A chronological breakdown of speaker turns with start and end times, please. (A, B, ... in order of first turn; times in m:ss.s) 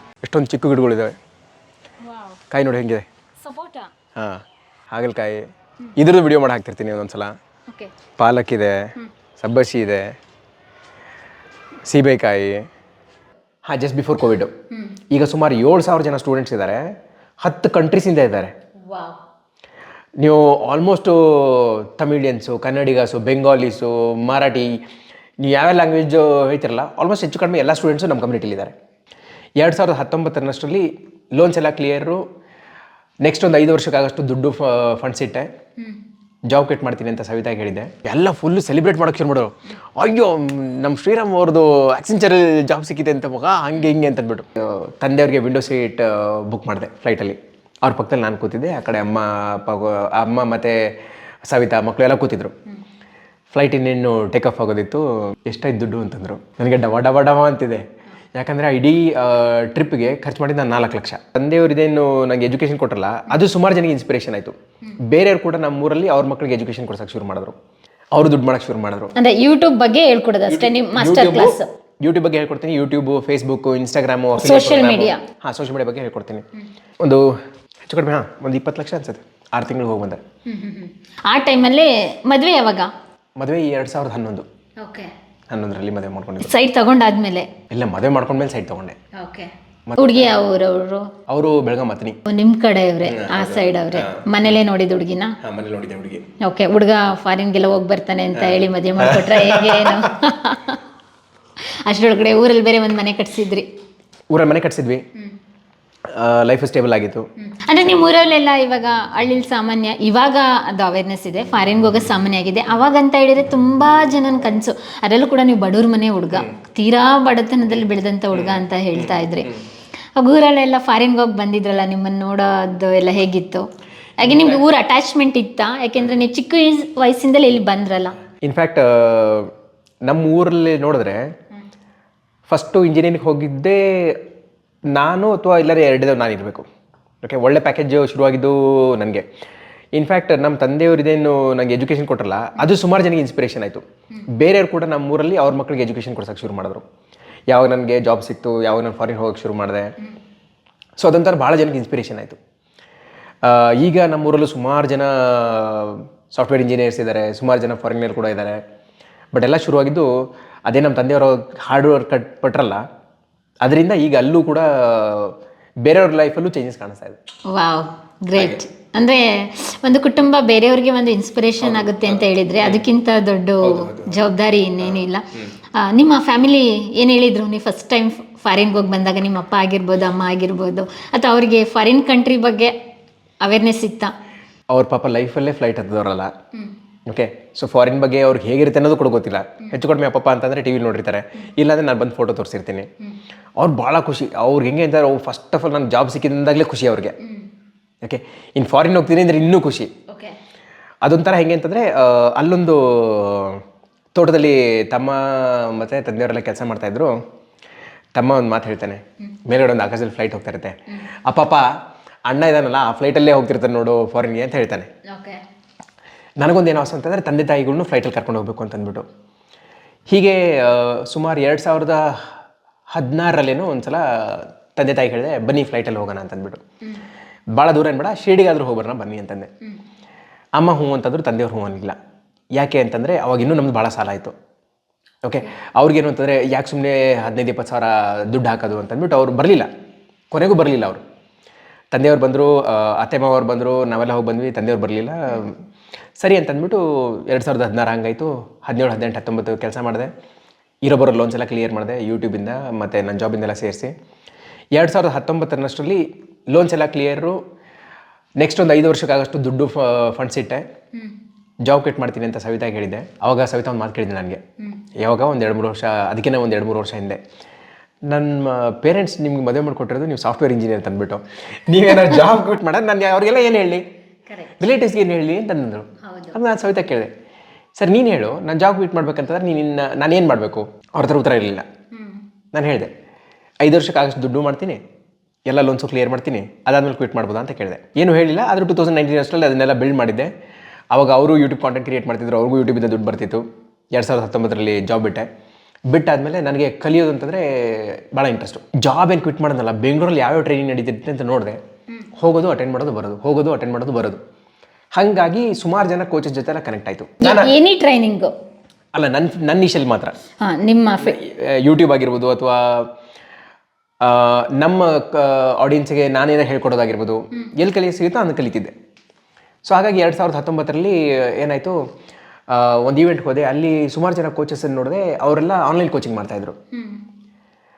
0:00.2-0:01.1 A
0:02.0-0:02.4 B
0:02.5-0:03.0 A
0:03.4-0:03.9 B
0:04.2-0:05.4 A
0:06.0-0:07.3 A
0:08.2-0:10.1 A
0:11.9-0:12.6 A
0:13.7-0:14.5 A
0:15.1-0:16.8 A
0:17.4-0:18.5 A
0:18.8-0:19.2 B
0:20.2-0:24.8 A
0:25.4-0:28.7 A
0:29.6-0:32.2 A
0:33.2-0:35.5 A
0:36.5-0:50.9 A
0:51.5-0:52.5 A
0:53.5-1:04.5 A
1:05.0-1:07.5 A
1:08.1-1:09.1 A
1:09.2-1:11.7 B
1:10.5-1:16.4 A
1:14.4-1:15.2 B
1:17.0-1:17.3 A
1:17.9-1:20.2 A
1:20.5-1:22.9 B
1:23.4-1:24.4 A
1:24.8-1:25.1 B
1:25.5-1:26.5 A
1:26.4-1:27.5 B
1:27.7-1:29.0 A
1:29.1-1:31.1 B
1:29.9-1:30.3 A
1:31.3-1:32.2 A
1:32.2-1:35.4 B
1:33.0-1:34.2 A
1:35.4-1:36.3 A
1:36.4-1:40.8 B
1:38.3-1:40.1 A
1:41.8-1:43.7 B
1:44.3-1:45.0 A
1:46.1-1:47.2 A
1:47.4-1:59.5 B
1:58.3-1:58.6 A
2:00.2-2:03.7 B
2:04.2-2:08.2 B
2:04.2-2:04.6 A
2:08.4-2:09.5 A
2:10.1-2:11.2 A
2:12.5-2:14.2 A
2:14.9-2:16.6 A
2:17.2-2:19.2 A
2:19.9-2:23.8 A
2:24.3-2:26.8 A
2:27.5-2:29.9 A
2:31.0-2:32.4 A
2:33.4-2:38.6 A
2:39.3-2:40.1 A
2:40.7-2:42.8 A
2:43.6-2:47.2 A
2:47.5-3:02.7 B
2:48.4-2:48.6 A
2:51.6-2:52.8 A
2:53.6-2:54.1 A
2:54.8-2:55.5 A
3:03.4-3:04.1 B
3:04.7-3:06.3 A
3:07.1-3:12.9 A
3:13.6-3:17.2 A
3:17.2-3:17.5 B
3:18.0-3:19.9 A
3:20.1-3:20.4 B
3:21.0-3:23.6 A
3:24.1-3:27.1 A
3:28.1-3:31.7 A
3:32.3-3:34.9 A
3:35.0-3:35.4 B
3:36.4-3:39.0 A
3:40.1-3:42.2 A
3:42.9-3:46.6 A
3:47.5-3:49.5 A
3:50.6-3:52.0 A
3:52.6-3:54.3 A
3:55.2-3:59.7 A
4:00.3-4:01.0 A
4:01.9-4:05.6 A
4:06.2-4:10.1 A
4:10.8-4:13.9 A
4:14.7-4:17.4 A
4:18.4-4:20.6 A
4:21.6-4:24.4 A
4:25.0-4:27.2 A
4:28.1-4:33.8 A
4:31.9-4:32.2 B
4:34.3-4:34.6 B
4:34.6-4:37.1 A
4:36.0-4:36.4 B
4:37.8-4:41.7 A
4:41.9-4:42.2 B
4:42.5-4:42.9 A
4:43.6-4:44.8 A
4:45.5-4:50.3 A
4:50.9-4:55.3 A
4:55.9-5:01.6 A
5:02.1-5:04.2 A
5:04.9-5:07.6 A
5:07.2-5:08.3 B
5:08.9-5:10.1 A
5:10.4-5:11.2 B
5:11.0-5:12.9 A
5:14.0-5:18.7 A
5:19.6-5:21.8 A
5:22.5-5:26.6 A
5:26.7-5:27.0 B